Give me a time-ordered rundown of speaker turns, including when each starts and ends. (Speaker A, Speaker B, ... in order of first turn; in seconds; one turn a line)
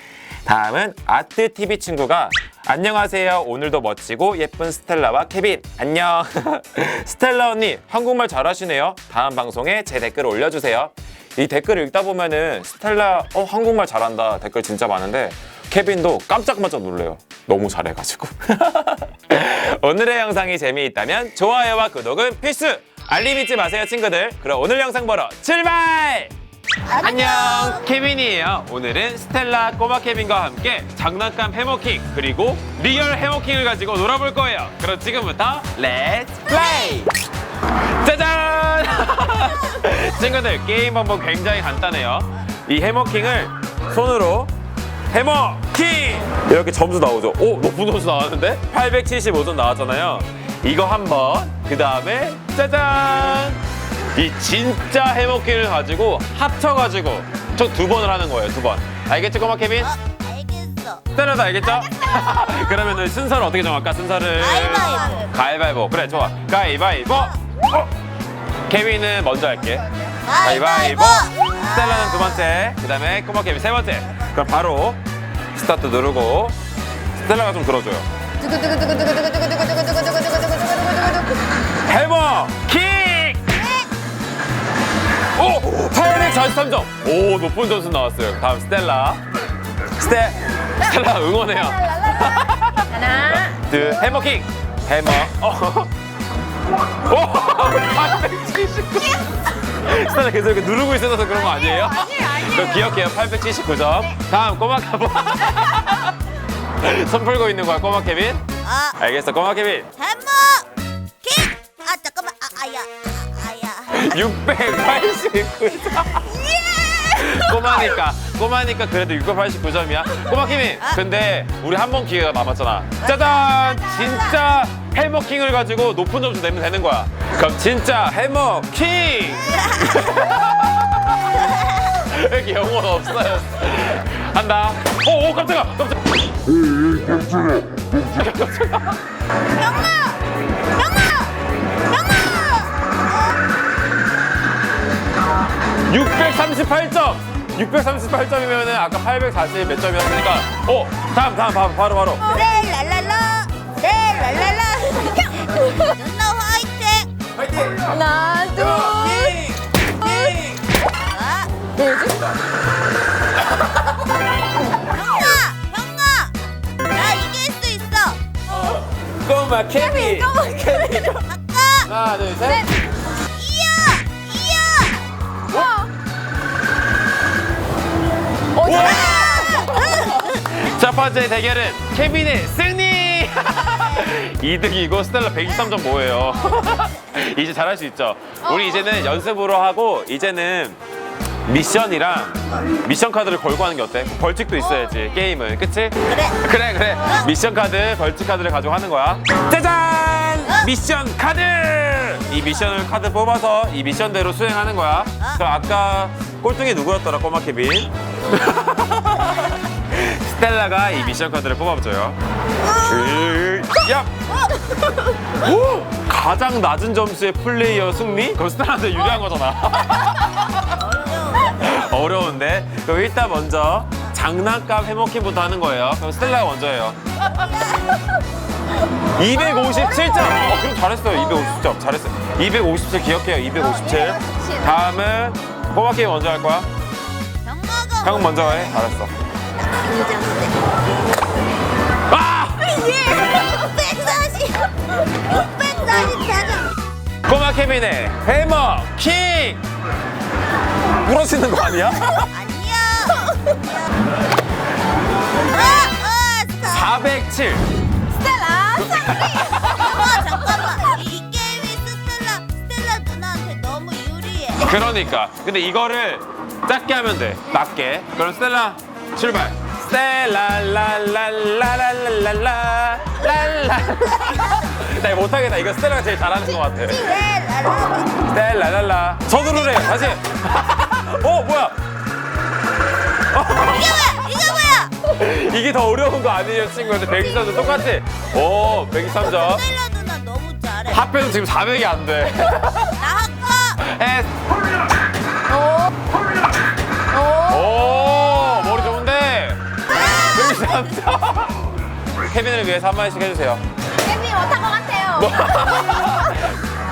Speaker A: 0.5-26.3
Speaker B: 26.9-27.8
Speaker A: 27.0-37.1
Speaker B: 36.5-37.0
Speaker A: 37.8-44.5
Speaker B: 39.4-39.8
Speaker A: 45.1-53.6
Speaker A: 54.1-59.9
Speaker B: 59.8-61.1
Speaker A: 61.1-67.9
Speaker B: 64.4-65.3
Speaker B: 67.1-67.4
Speaker A: 68.7-69.9
Speaker B: 70.2-72.4
Speaker A: 70.4-75.0
Speaker A: 75.5-76.5
Speaker A: 77.2-78.1
Speaker C: 78.4-81.4
Speaker A: 81.8-83.5
Speaker B: 83.5-83.9
Speaker A: 85.3-89.2
Speaker A: 89.9-95.9
Speaker C: 92.9-93.5
Speaker A: 97.0-106.2
Speaker C: 101.5-102.9
Speaker A: 106.8-108.4
Speaker B: 108.6-109.0
Speaker A: 109.0-109.9
Speaker B: 110.0-110.7
Speaker B: 111.2-114.2
Speaker A: 113.9-116.3
Speaker B: 116.0-118.0
Speaker A: 117.1-136.1
Speaker B: 120.3-121.0
Speaker B: 123.0-124.5
Speaker B: 129.4-130.3
Speaker B: 131.3-131.9
Speaker A: 137.8-139.0
Speaker B: 139.5-143.4
Speaker A: 145.9-152.3
Speaker B: 152.2-157.1
Speaker A: 157.4-160.6
Speaker C: 157.9-159.4
Speaker B: 161.0-161.7
Speaker C: 161.8-162.2
Speaker B: 164.8-166.4
Speaker B: 166.9-168.8
Speaker A: 168.5-171.3
Speaker C: 169.8-171.2
Speaker B: 171.2-171.9
Speaker A: 171.9-172.8
Speaker B: 173.2-175.1
Speaker C: 175.5-175.9
Speaker C: 178.6-180.2
Speaker A: 178.6-179.6
Speaker B: 178.7-180.7
Speaker A: 180.4-190.8
Speaker B: 183.6-184.1
Speaker A: 191.5-212.2
Speaker B: 196.1-196.4
Speaker B: 212.6-213.4
Speaker A: 212.7-214.1
Speaker B: 214.3-215.1
Speaker A: 215.3-220.8
Speaker B: 220.6-222.0
Speaker A: 221.6-227.0
Speaker B: 227.2-228.2
Speaker A: 229.0-236.7
Speaker B: 231.2-231.6
Speaker C: 233.6-234.7
Speaker B: 237.4-238.9
Speaker A: 238.0-239.1
Speaker B: 239.6-240.6
Speaker A: 242.1-242.8
Speaker B: 242.6-246.8
Speaker A: 247.2-249.6
Speaker A: 251.0-252.3
Speaker B: 252.1-254.0
Speaker B: 255.4-256.9
Speaker A: 256.7-257.7
Speaker C: 258.1-259.9
Speaker A: 258.9-259.7
Speaker B: 259.6-264.8
Speaker A: 264.6-277.1
Speaker B: 274.1-274.7
Speaker B: 276.8-278.3
Speaker A: 278.2-281.8
Speaker B: 279.5-280.2
Speaker A: 283.3-284.0
Speaker B: 283.5-285.0
Speaker A: 285.0-289.6
Speaker B: 289.2-291.1
Speaker A: 290.9-293.0
Speaker B: 292.9-293.9
Speaker A: 293.8-294.5
Speaker C: 295.5-295.9
Speaker C: 297.1-298.2
Speaker A: 297.4-301.7
Speaker B: 299.9-301.0
Speaker A: 302.3-303.6
Speaker C: 304.0-306.2
Speaker A: 305.1-306.6